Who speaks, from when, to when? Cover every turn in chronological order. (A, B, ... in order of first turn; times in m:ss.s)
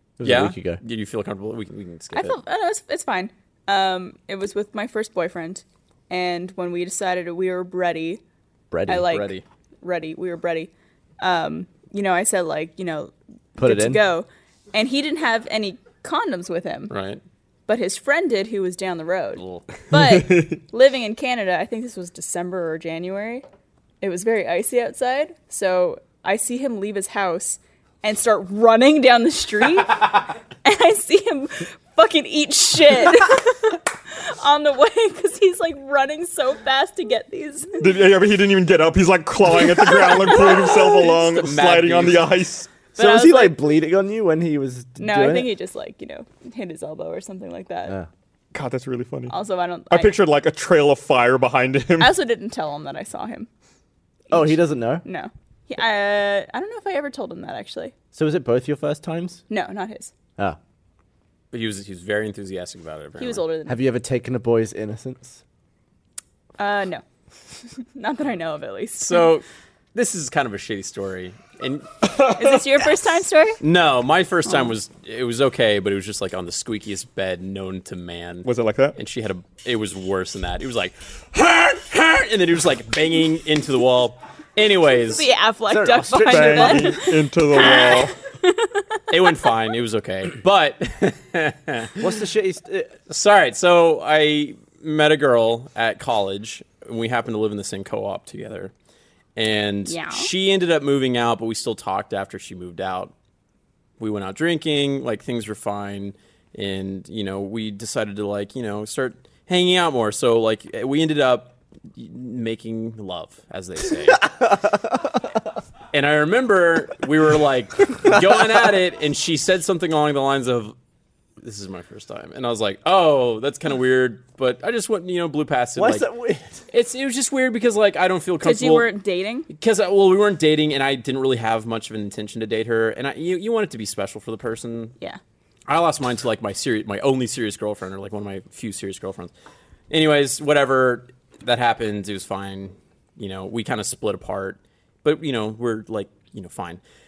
0:00.2-0:00.8 A
0:00.2-0:02.4 B
0:02.1-0:08.2 C
0:08.7-0:09.2 A
0:08.9-0:16.9 C
0:09.1-0:09.4 B
0:13.6-0:14.0 A
0:16.9-0:17.2 B
0:17.7-0:23.4 C
0:19.4-0:19.6 B
0:19.9-0:20.4 D
0:24.0-0:37.9 C
0:37.8-0:42.7 D
0:39.6-0:41.2 C
0:41.1-0:42.4 B
0:43.0-0:43.6 C
0:43.0-0:45.5 A
0:45.0-0:48.0 C
0:48.5-0:49.4 D
0:49.3-0:50.2 C
0:49.9-0:52.1 D
0:52.0-0:53.5 C
0:54.3-0:55.0 A
0:54.3-0:57.9 C
0:58.1-0:59.4 A
0:59.5-1:00.1 C
1:01.5-1:03.4 B
1:03.2-1:03.8 C
1:03.7-1:05.4 A
1:06.6-1:07.0 C
1:07.7-1:09.3 C
1:09.0-1:11.9 B
1:12.1-1:12.7 D
1:12.4-1:13.6 C
1:13.6-1:25.3 B
1:18.4-1:19.0 D
1:25.0-1:29.5 C
1:25.7-1:27.0 A
1:26.2-1:28.1 D
1:29.1-1:32.1 B
1:32.0-1:32.9 A
1:33.1-1:38.7 B
1:39.4-1:43.1 B
1:39.9-1:40.3 C
1:44.0-1:54.3 B
1:54.4-1:54.9 A
1:55.9-2:00.8 B
2:01.4-2:06.1 B
2:05.8-2:06.6 A
2:06.7-2:08.9 B
2:08.4-2:09.5 C
2:09.5-2:14.9 B
2:15.7-2:19.3 B
2:19.9-2:26.8 B